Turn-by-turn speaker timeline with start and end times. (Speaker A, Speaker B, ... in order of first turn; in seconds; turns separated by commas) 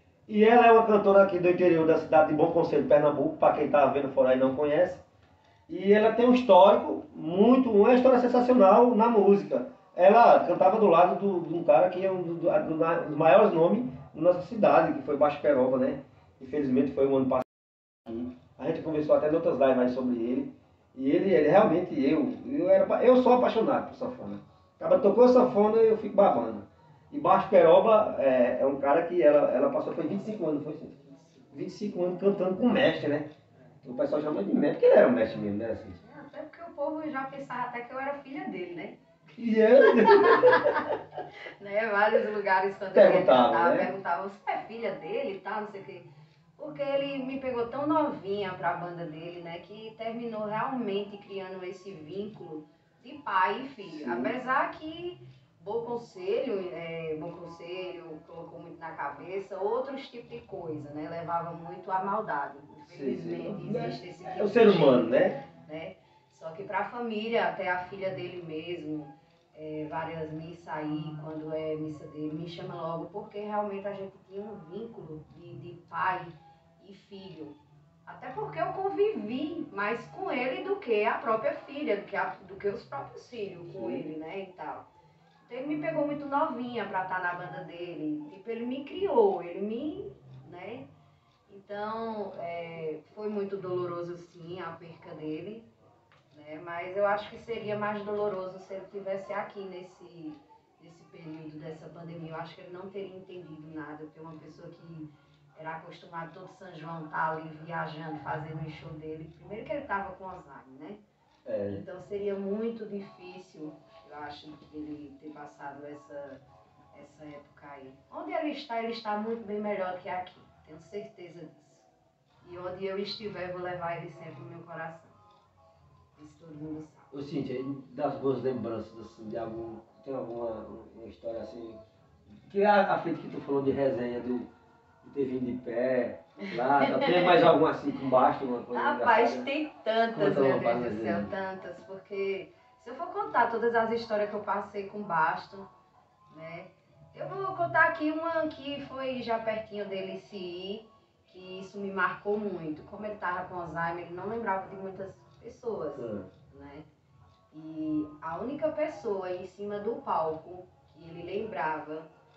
Speaker A: 0.3-5.0, Speaker A: 5.7-17.5, Speaker A: 18.0-31.0, Speaker A: 31.5-33.3, Speaker A: 33.8-36.0, Speaker B: 36.0-39.0, Speaker A: 39.3-40.8, Speaker B: 39.8-40.9, Speaker B: 41.6-84.9, Speaker A: 42.9-43.9, Speaker A: 53.8-54.3, Speaker A: 62.9-65.4, Speaker A: 83.7-84.1, Speaker B: 85.4-90.9, Speaker B: 91.5-95.7, Speaker B: 96.3-111.0, Speaker A: 111.4-111.8, Speaker B: 111.7-121.9, Speaker B: 122.4-125.1, Speaker B: 126.2-127.1, Speaker A: 127.1-131.8, Speaker A: 132.5-134.5, Speaker A: 135.0-139.5, Speaker B: 136.8-137.4, Speaker B: 138.7-145.7, Speaker A: 140.1-141.3, Speaker B: 146.3-156.9, Speaker A: 155.9-156.3, Speaker B: 157.5-162.1